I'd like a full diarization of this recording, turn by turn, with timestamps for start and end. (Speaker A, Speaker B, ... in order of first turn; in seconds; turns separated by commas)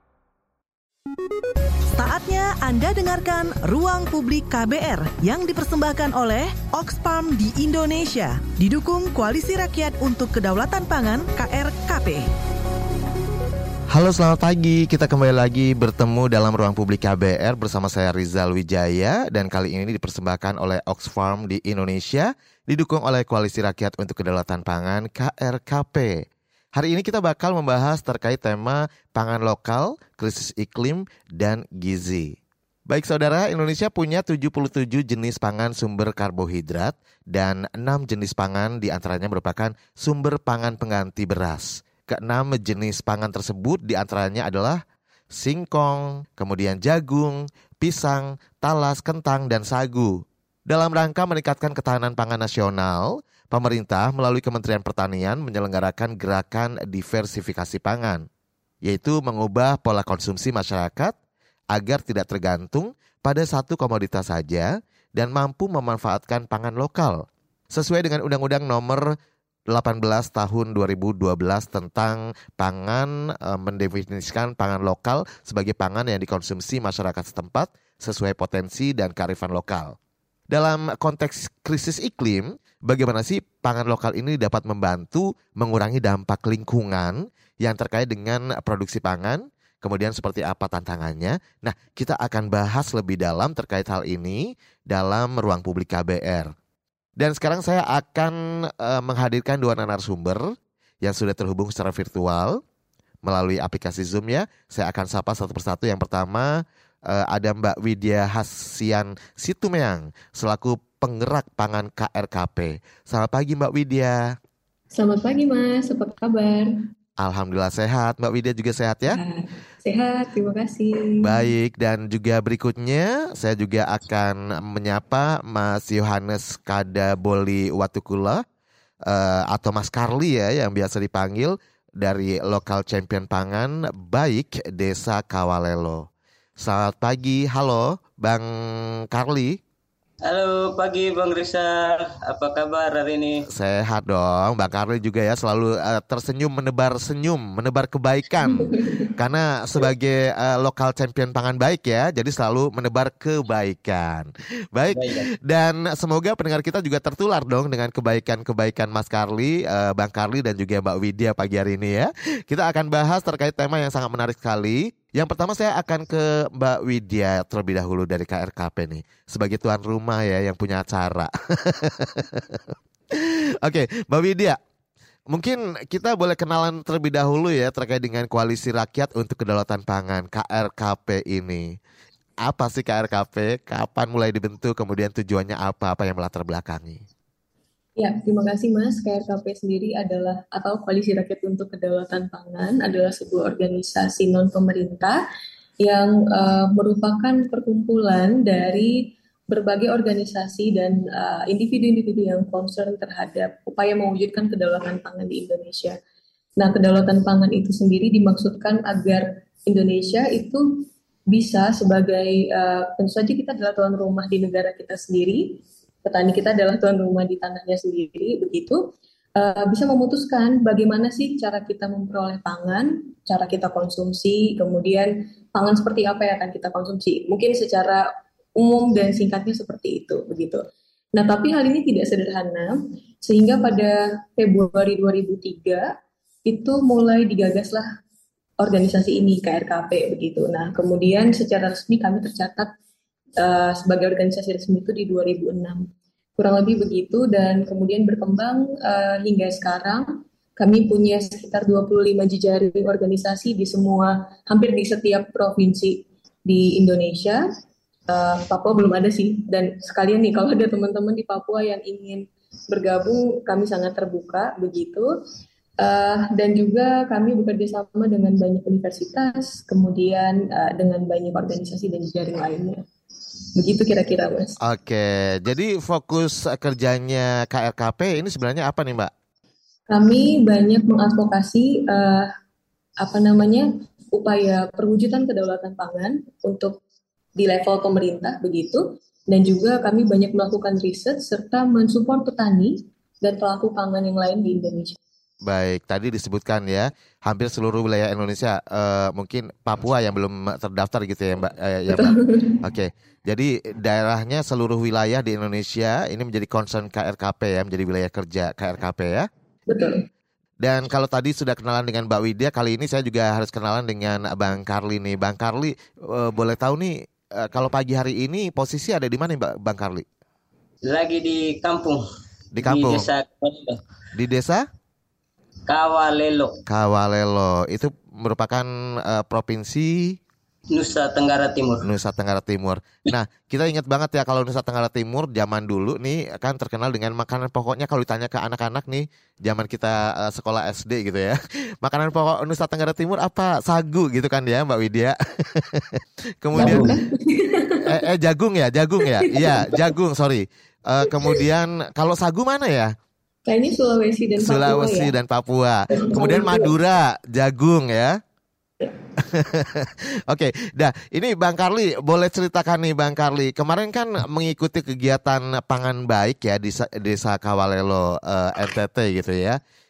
Speaker A: 1.9-12.3, Speaker B: 13.9-32.4, Speaker B: 32.9-44.8, Speaker B: 45.3-58.2, Speaker B: 58.8-61.1, Speaker B: 61.7-69.1, Speaker B: 69.7-80.0, Speaker B: 80.5-96.5, Speaker B: 97.2-102.6, Speaker B: 103.2-106.5, Speaker B: 107.1-114.3, Speaker C: 114.9-116.7, Speaker B: 117.2-119.2, Speaker C: 119.1-121.5, Speaker B: 121.2-128.4, Speaker B: 129.1-136.1, Speaker B: 136.6-139.6, Speaker D: 140.2-143.4, Speaker B: 143.5-174.6, Speaker C: 148.4-149.1, Speaker D: 154.9-155.3, Speaker B: 175.3-181.8, Speaker B: 182.4-187.0, Speaker C: 188.0-195.2, Speaker C: 195.8-206.0, Speaker C: 206.6-210.6, Speaker C: 211.3-218.8, Speaker C: 219.4-228.0, Speaker C: 228.6-230.6, Speaker C: 231.1-235.9, Speaker C: 236.4-237.8, Speaker C: 238.6-242.7, Speaker C: 243.4-257.4, Speaker C: 258.1-265.1, Speaker C: 265.8-272.8, Speaker C: 273.6-274.6, Speaker B: 274.6-279.1, Speaker C: 279.9-282.3, Speaker C: 283.0-286.8, Speaker C: 287.4-295.0, Speaker B: 295.4-309.3, Speaker C: 301.9-302.6, Speaker C: 309.7-310.0, Speaker B: 310.6-320.0, Speaker D: 320.9-322.0, Speaker B: 322.5-323.1, Speaker D: 322.6-323.8, Speaker B: 324.1-324.6, Speaker D: 325.7-326.6, Speaker B: 326.7-330.2, Speaker D: 330.7-331.8, Speaker B: 331.8-346.9, Speaker D: 346.5-346.9, Speaker C: 346.5-348.0, Speaker B: 347.8-352.9, Speaker C: 349.0-349.8, Speaker C: 353.4-355.1, Speaker B: 354.4-358.2, Speaker C: 355.9-356.7, Speaker B: 359.2-369.6